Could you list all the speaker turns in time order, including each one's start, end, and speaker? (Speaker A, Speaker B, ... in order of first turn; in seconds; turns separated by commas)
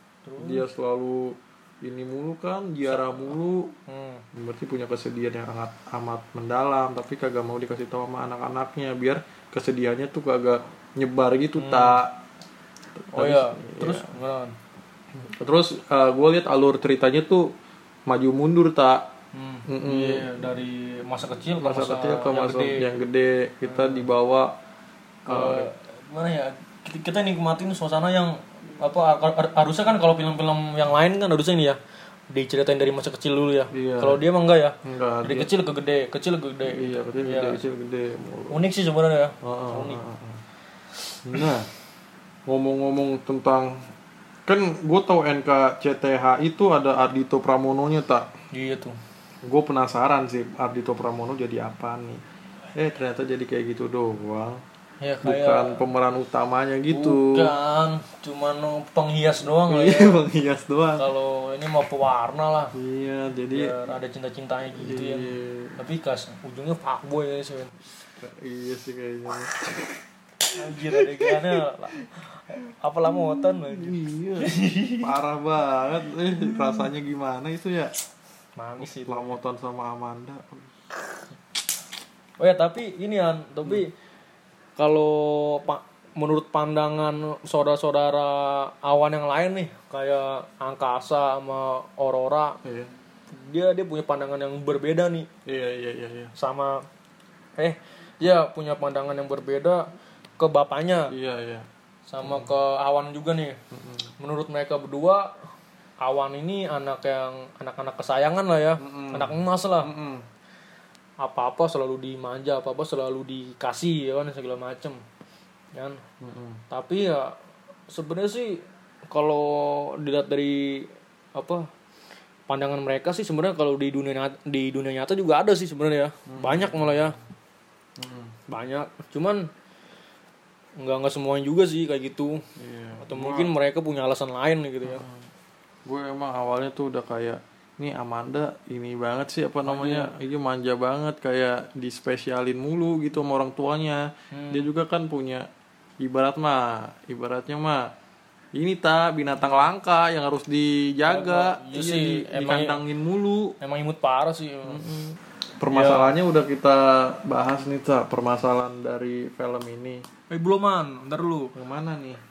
Speaker A: 0.2-0.7, Speaker B: 0.4-3.7, Speaker A: 2.9-3.3, Speaker A: 3.9-4.2, Speaker B: 4.3-12.2, Speaker A: 11.6-12.0, Speaker B: 13.0-14.1, Speaker A: 13.1-14.6, Speaker B: 15.2-17.5, Speaker B: 18.1-19.1, Speaker A: 19.3-22.9, Speaker B: 19.7-20.4, Speaker B: 21.6-24.5, Speaker A: 23.6-24.1, Speaker B: 25.3-25.7, Speaker A: 25.3-31.8, Speaker A: 32.3-37.6, Speaker B: 33.7-34.2, Speaker B: 34.8-35.5, Speaker B: 36.6-38.6, Speaker A: 38.5-40.0, Speaker B: 39.4-40.4, Speaker B: 41.2-41.7, Speaker B: 42.5-43.9, Speaker B: 44.5-48.3, Speaker A: 48.5-49.0, Speaker B: 49.4-52.2, Speaker B: 52.7-54.6, Speaker A: 55.0-55.8, Speaker B: 55.2-57.5, Speaker A: 56.9-60.2, Speaker B: 59.6-61.0, Speaker A: 61.0-62.7, Speaker B: 62.7-63.8, Speaker A: 63.5-67.8, Speaker B: 64.7-65.8, Speaker B: 68.2-72.0, Speaker A: 70.5-75.1, Speaker B: 73.1-77.9, Speaker A: 78.6-79.3, Speaker B: 78.8-80.7, Speaker A: 82.4-83.9, Speaker A: 84.8-92.6, Speaker B: 92.6-92.9, Speaker A: 93.3-95.3, Speaker B: 95.5-96.3, Speaker A: 96.3-96.8, Speaker A: 97.6-101.1, Speaker B: 101.1-101.7, Speaker A: 102.1-103.6, Speaker B: 102.2-102.5, Speaker B: 103.7-104.1, Speaker A: 104.2-105.3, Speaker A: 106.0-109.9, Speaker B: 108.8-110.2, Speaker A: 111.2-115.0, Speaker A: 115.7-116.0, Speaker B: 116.2-116.6, Speaker A: 116.7-117.4, Speaker A: 117.9-121.7, Speaker A: 122.5-127.2, Speaker B: 126.3-127.1, Speaker B: 128.0-128.3, Speaker A: 128.5-129.5, Speaker A: 130.8-132.4, Speaker B: 132.6-133.5, Speaker A: 133.0-135.0, Speaker B: 134.8-135.2, Speaker B: 135.8-145.5, Speaker A: 139.6-140.1, Speaker A: 144.3-144.7, Speaker B: 146.0-147.9, Speaker B: 148.5-153.5, Speaker A: 151.1-152.8, Speaker A: 153.6-155.1, Speaker B: 154.7-155.0, Speaker B: 155.6-160.0, Speaker A: 155.7-156.2, Speaker A: 160.3-161.5, Speaker B: 161.5-162.2